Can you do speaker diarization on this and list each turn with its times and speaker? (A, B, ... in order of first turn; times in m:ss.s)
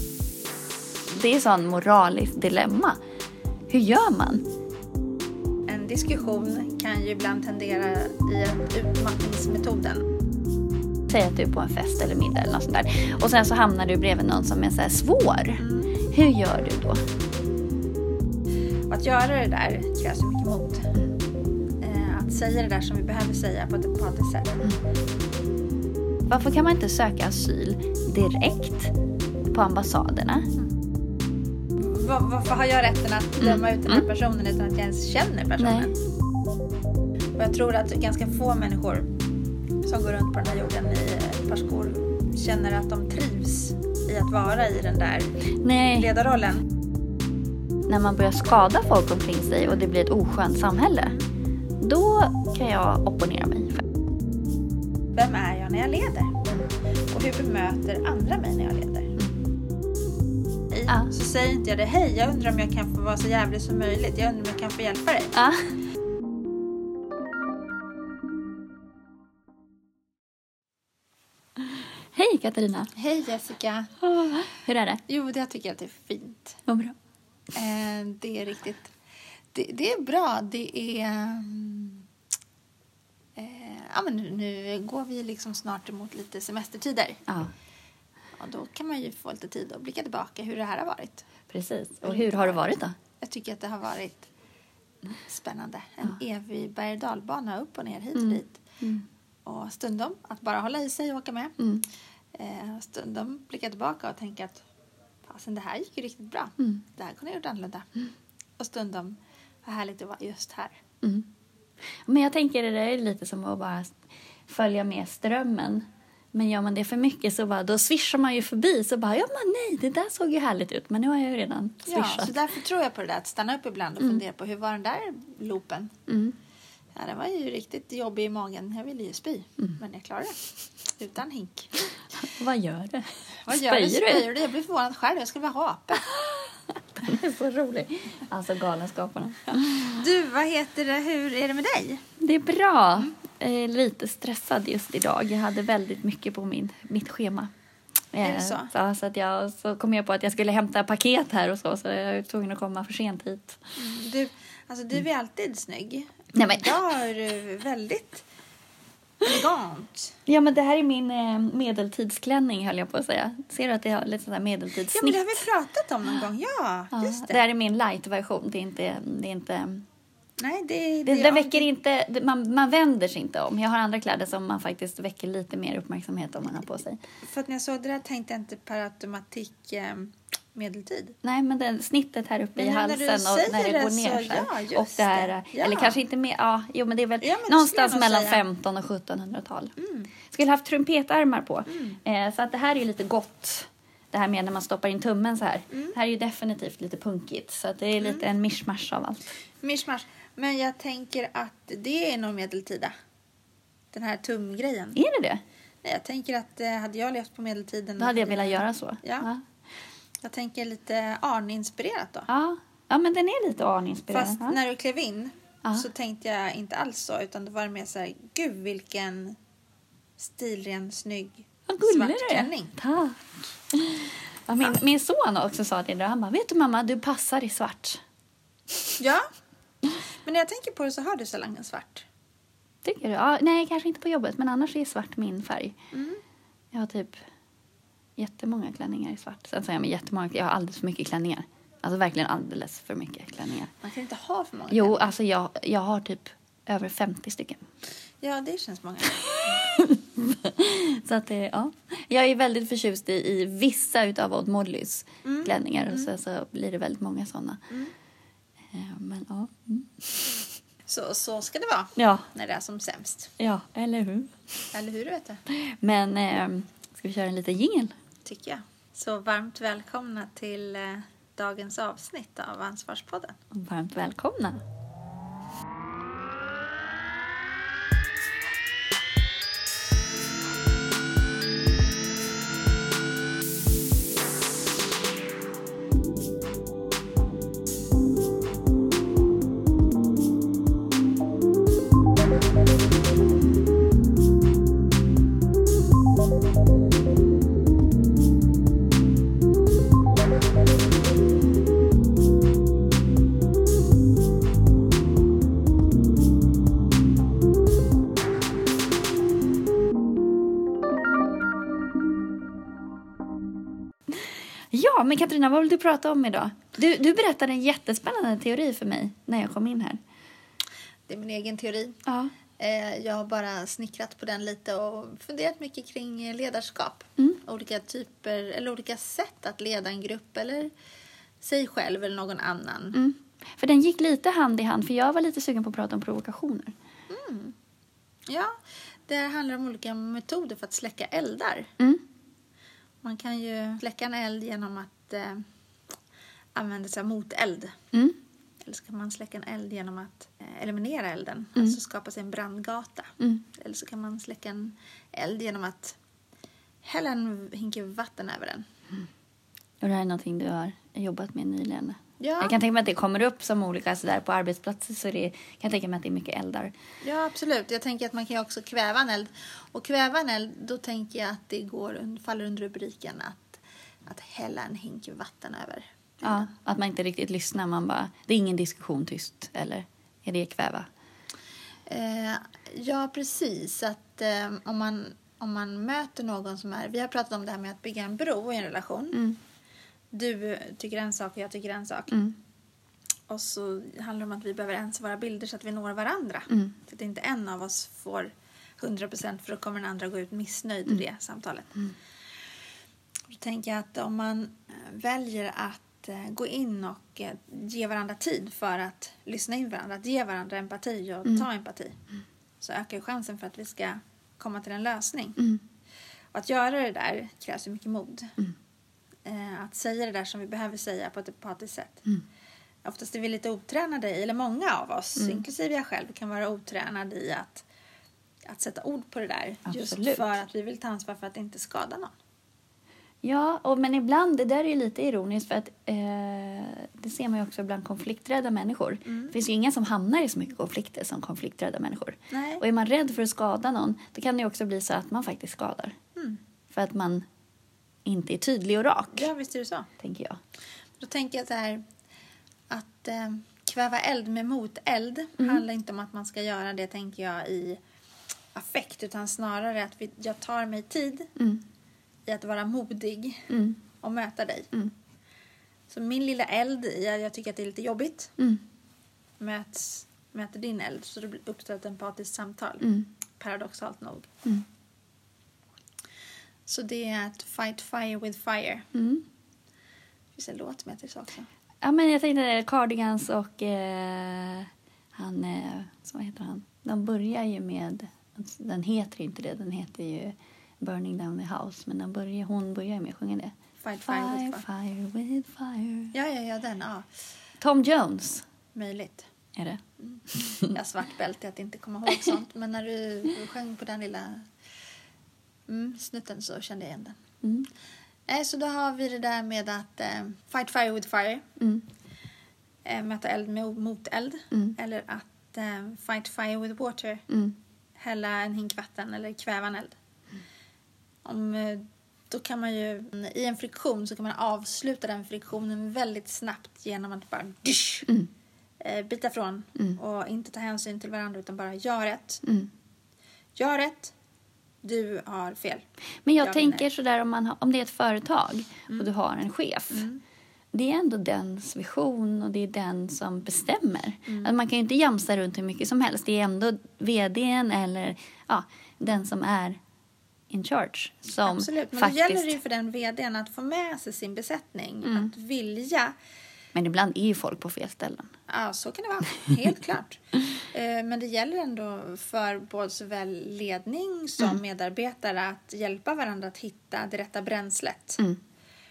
0:01.1-0:03.0 A
0:03.7-0:04.4 A
0:05.7-0:10.1 B
0:11.1-0:17.0 A
0:15.6-0:15.9 B
0:18.9-0:20.9 B
0:21.8-0:24.6 B
0:26.3-0:28.9 A
0:29.5-0:30.5 A
0:31.8-0:36.0 B
0:33.4-0:34.0 A
0:35.6-0:35.9 A
0:37.4-0:39.1 B
0:39.8-0:46.6 B
0:45.6-0:46.1 A
0:47.9-0:51.2 A
0:51.0-0:51.3 B
0:51.8-0:53.8 A
0:55.1-0:56.4 B
0:57.1-0:59.2 B
1:00.7-1:05.4 B
1:05.3-1:05.7 A
1:11.6-1:12.9 A
1:12.9-1:13.9 B
1:14.0-1:15.0 A
1:15.1-1:16.6 B
1:16.7-1:17.0 A
1:17.5-1:18.9 B
1:19.5-1:22.0 B
1:23.4-1:27.2 B
1:28.4-1:31.2 B
1:31.5-1:33.0 A
1:32.0-1:34.3 B
1:35.2-1:38.6 B
1:38.1-1:39.0 A
1:39.4-1:41.6 B
1:41.6-1:41.8 A
1:42.3-1:44.6 B
1:45.2-1:47.9 B
1:48.6-1:50.8 B
1:51.0-1:51.3 A
1:52.0-2:02.4 A
2:01.9-2:05.9 B
2:06.1-2:06.4 A
2:07.0-2:11.9 B
2:12.2-2:14.3 A
2:13.5-2:16.1 B
2:16.1-2:20.0 A
2:19.6-2:22.0 B
2:22.2-2:27.5 A
2:28.1-2:33.6 A
2:28.2-2:28.7 B
2:33.8-2:38.2 B
2:36.4-2:36.8 A
2:39.2-2:40.2 B
2:40.3-2:45.3 A
2:44.9-2:47.4 B
2:46.9-2:49.8 A
2:50.4-2:51.7 B
2:51.0-2:57.0 A
2:57.2-3:01.2 B
3:01.2-3:09.7 A
3:02.6-3:06.0 B
3:07.2-3:08.4 B
3:09.8-3:10.1 B
3:10.3-3:19.3 A
3:11.7-3:12.0 B
3:15.7-3:16.0 B
3:18.0-3:18.3 B
3:19.6-3:22.9 B
3:23.9-3:25.0 B
3:25.0-3:25.4 A
3:25.8-3:29.3 B
3:28.0-3:29.4 A
3:30.2-3:32.3 B
3:32.3-3:34.6 A
3:34.1-3:39.4 B
3:40.2-3:42.8 B
3:41.7-3:48.0 A
3:49.0-3:49.3 B
3:50.3-3:52.1 B
3:52.8-3:55.8 A
3:55.9-3:56.2 B
3:56.7-3:57.2 A
3:58.2-4:03.7 A
4:03.8-4:05.1 B
4:04.7-4:07.6 A
4:08.2-4:09.6 B
4:09.3-4:17.6 A
4:15.2-4:16.1 B
4:18.7-4:20.4 A
4:20.9-4:23.3 B
4:22.0-4:22.3 A
4:23.4-4:24.4 A
4:24.7-4:25.4 B
4:25.5-4:27.9 A
4:28.2-4:33.4 B
4:33.5-4:34.6 A
5:14.7-5:20.0 A
5:21.1-5:22.0 B
5:22.1-5:22.3 A
5:22.6-5:30.7 B
5:31.4-5:33.0 B
5:32.9-5:36.7 A
5:37.1-5:37.5 B
5:38.3-5:38.6 B
5:39.1-5:41.7 B
5:43.0-5:45.4 B
5:46.6-5:47.8 B
5:47.9-5:48.2 A
5:48.6-5:56.0 B
5:56.8-5:58.6 B
5:59.8-6:06.7 A
6:02.2-6:02.6 B
6:07.0-6:16.5 B
6:16.2-6:20.9 A
6:21.9-6:29.3 B
6:30.1-6:32.3 B
6:33.3-6:41.9 B
6:43.3-6:52.0 B
6:52.6-6:55.4 B
6:56.3-6:58.4 B
6:59.2-7:02.1 B
7:02.8-7:07.6 B
7:08.4-7:12.1 B
7:09.7-7:10.3 A
7:13.2-7:26.0 A
7:19.1-7:19.3 B
7:22.3-7:22.6 B
7:26.7-7:27.2 A
7:28.0-7:29.3 A
7:29.1-7:29.9 B
7:30.0-7:30.4 A
7:31.0-7:31.8 B
7:32.7-7:37.8 B
7:38.5-7:41.3 B
7:41.4-7:41.6 A
7:42.3-7:44.7 B
7:43.5-7:43.8 A
7:45.9-7:48.4 B
7:49.4-7:54.3 B
7:52.8-7:53.1 A
7:56.6-7:58.9 B
7:58.9-7:59.2 A
8:00.3-8:01.5 B
8:01.8-8:16.1 A
8:13.8-8:14.6 B
8:16.1-8:17.1 B
8:17.6-8:18.4 A
8:18.7-8:19.3 B
8:19.6-8:19.8 A
8:20.0-8:24.5 B
8:20.3-8:20.7 A
8:25.7-8:27.2 B
8:27.4-8:27.7 A
8:28.3-8:31.5 B
8:31.6-8:31.8 A
8:32.8-8:37.2 B
8:37.3-8:37.6 A
8:38.0-8:40.0 B
8:41.2-8:48.1 B
8:48.8-8:52.4 B
8:52.4-8:52.7 A
8:53.6-8:54.1 B
8:54.8-8:55.8 B
8:56.2-9:00.1 A
8:56.4-8:56.9 B
8:59.9-9:00.2 B
9:00.7-9:09.8 A
9:10.5-9:12.6 A
9:11.5-9:16.2 B
9:16.8-9:18.3 A
9:18.5-9:28.2 B